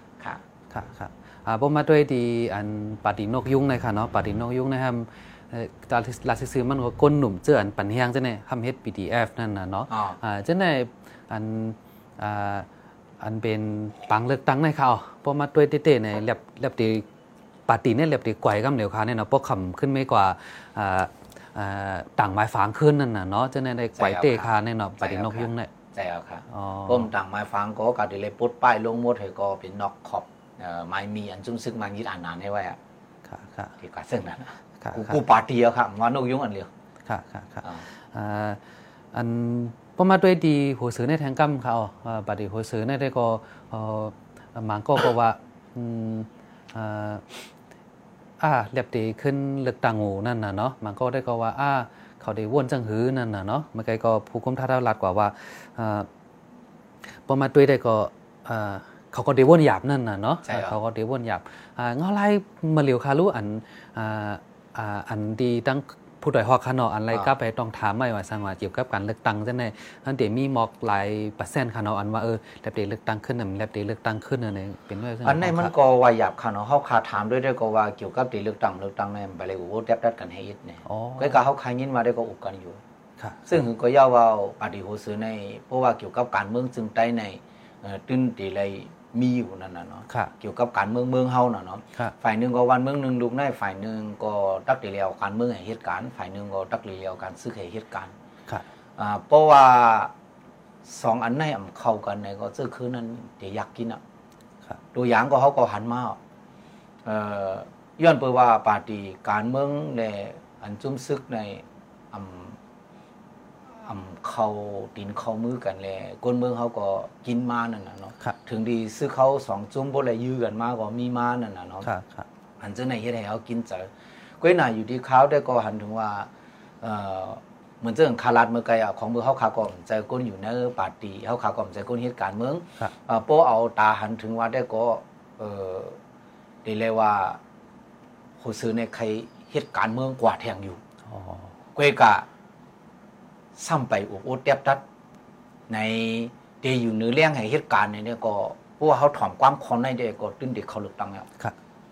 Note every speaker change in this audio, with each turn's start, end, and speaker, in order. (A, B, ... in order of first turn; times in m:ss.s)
0:00.7-0:12.7 A
0:09.9-0:10.2 B
0:13.2-0:17.0 A
0:17.7-0:25.7 A
0:24.0-0:24.5 B
0:25.0-0:32.8 B
0:26.5-0:27.1 A
0:33.2-0:33.7 A
0:33.8-0:36.7 B
0:34.8-0:35.2 A
0:37.0-0:38.6 A
0:39.1-0:47.4 A
0:48.4-0:56.1 A
0:57.2-1:15.7 A
1:00.4-1:00.7 B
1:15.2-1:22.8 B
1:20.8-1:21.4 A
1:23.2-1:23.6 A
1:23.5-1:38.1 B
1:39.0-1:40.1 B
1:40.8-1:44.0 B
1:44.9-1:46.2 B
1:47.0-1:52.6 B
1:53.8-2:01.9 B
2:01.8-2:02.2 A
2:02.6-2:03.9 B
2:04.4-2:06.3 B
2:06.8-2:16.0 B
2:16.6-2:17.4 B
2:18.4-2:20.8 B
2:21.0-2:21.5 A
2:21.7-2:22.2 B
2:23.6-2:24.8 B
2:25.7-2:31.3 B